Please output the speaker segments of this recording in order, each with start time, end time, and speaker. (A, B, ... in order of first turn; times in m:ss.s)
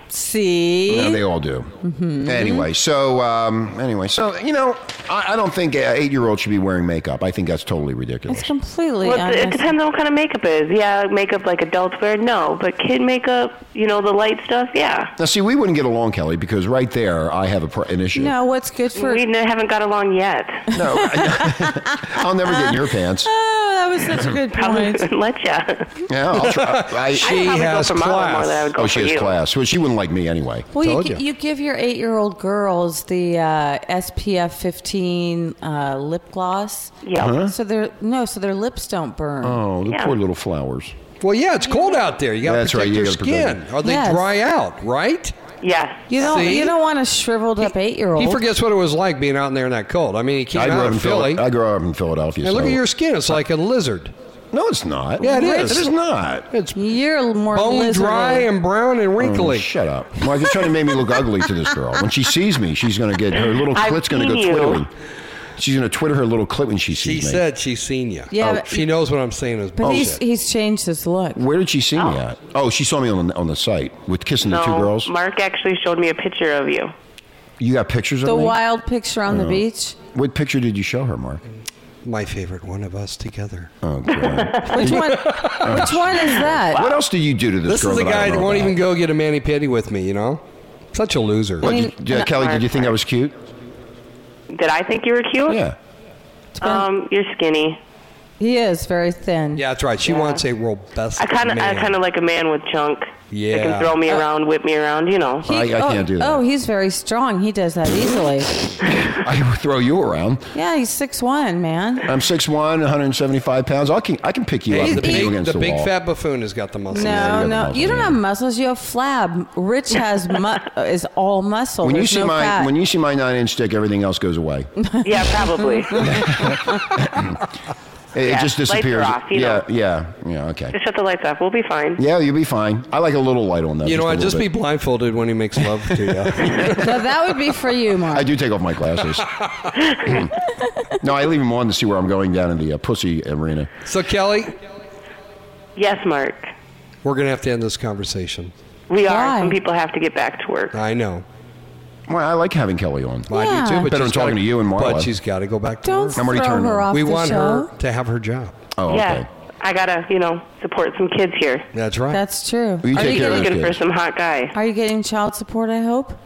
0:00.1-0:01.2 A
0:00.9-0:01.7 B
0:01.8-0:02.7 A
0:02.2-0:08.5 B
0:08.3-0:09.7 A
0:09.0-0:15.1 C
0:15.2-0:18.3 B
0:18.1-0:19.2 A
0:18.9-0:20.7 C
0:20.7-0:23.3 B
0:20.9-0:25.0 A
0:24.5-0:25.9 C
0:26.1-0:27.4 B
0:26.4-0:28.7 D
0:27.2-0:29.3 C
0:28.7-0:30.7 B
0:30.7-0:39.6 A
0:30.8-0:31.2 D
0:37.0-0:37.4 C
0:37.2-0:37.5 B
0:39.4-0:40.9 B
0:39.9-0:40.1 C
0:41.2-0:45.3 D
0:42.4-0:43.6 B
0:43.8-0:44.3 A
0:45.6-0:46.4 C
0:46.1-0:48.4 A
0:46.2-0:46.8 D
0:47.6-0:51.4 D
0:50.5-0:52.8 B
0:52.4-0:54.1 D
0:54.5-0:56.5 B
0:55.2-0:55.8 D
0:55.2-0:55.9 A
0:56.5-0:56.8 D
0:56.7-0:58.5 A
0:57.5-0:59.7 D
0:59.2-1:04.9 B
1:03.7-1:04.8 C
1:05.6-1:07.4 B
1:06.9-1:10.2 D
1:08.3-1:08.9 A
1:09.8-1:11.4 A
1:09.8-1:10.1 B
1:11.4-1:15.1 B
1:14.4-1:16.9 C
1:17.6-1:18.6 B
1:18.2-1:20.0 A
1:19.3-1:21.4 B
1:22.0-1:23.7 D
1:23.8-1:28.8 B
1:24.1-1:24.6 C
1:24.7-1:26.8 A
1:24.8-1:25.8 D
1:26.7-1:27.0 C
1:27.7-1:30.4 D
1:30.9-1:31.7 D
1:31.6-1:33.4 B
1:31.6-1:32.3 A
1:32.1-1:32.9 C
1:34.5-1:35.6 C
1:35.5-1:35.8 B
1:36.6-1:36.8 A
1:36.6-1:37.8 C
1:38.4-1:39.6 A
1:39.6-1:42.0 D
1:40.1-1:40.4 C
1:41.2-1:45.5 C
1:43.3-1:44.2 D
1:45.4-1:46.4 B
1:45.5-1:48.6 A
1:49.0-1:50.5 B
1:50.5-1:52.1 A
1:52.1-1:55.9 B
1:54.7-1:57.2 D
1:54.7-1:55.3 A
1:56.9-2:02.7 A
1:56.9-1:58.2 B
2:01.8-2:04.7 B
2:04.8-2:06.5 A
2:05.0-2:06.1 C
2:06.0-2:07.4 B
2:08.1-2:10.8 B
2:08.2-2:09.6 C
2:10.7-2:12.0 C
2:12.0-2:14.5 B
2:13.8-2:16.8 D
2:16.3-2:16.8 B
2:16.7-2:18.3 A
2:18.1-2:19.3 B
2:20.0-2:20.3 B
2:21.0-2:23.7 B
2:23.9-2:24.5 D
2:25.8-2:26.5 C
2:27.0-2:28.5 D
2:28.9-2:30.8 C
2:29.0-2:29.6 A
2:30.7-2:31.2 D
2:32.1-2:33.3 B
2:33.3-2:36.2 D
2:33.3-2:33.9 A
2:33.8-2:35.1 B
2:35.8-2:37.7 A
2:36.2-2:36.9 B
2:36.9-2:38.6 D
2:38.8-2:39.3 B
2:38.9-2:41.6 C
2:41.7-2:42.2 D
2:42.1-2:43.6 A
2:42.8-2:43.8 B
2:42.9-2:44.5 C
2:44.5-2:46.2 A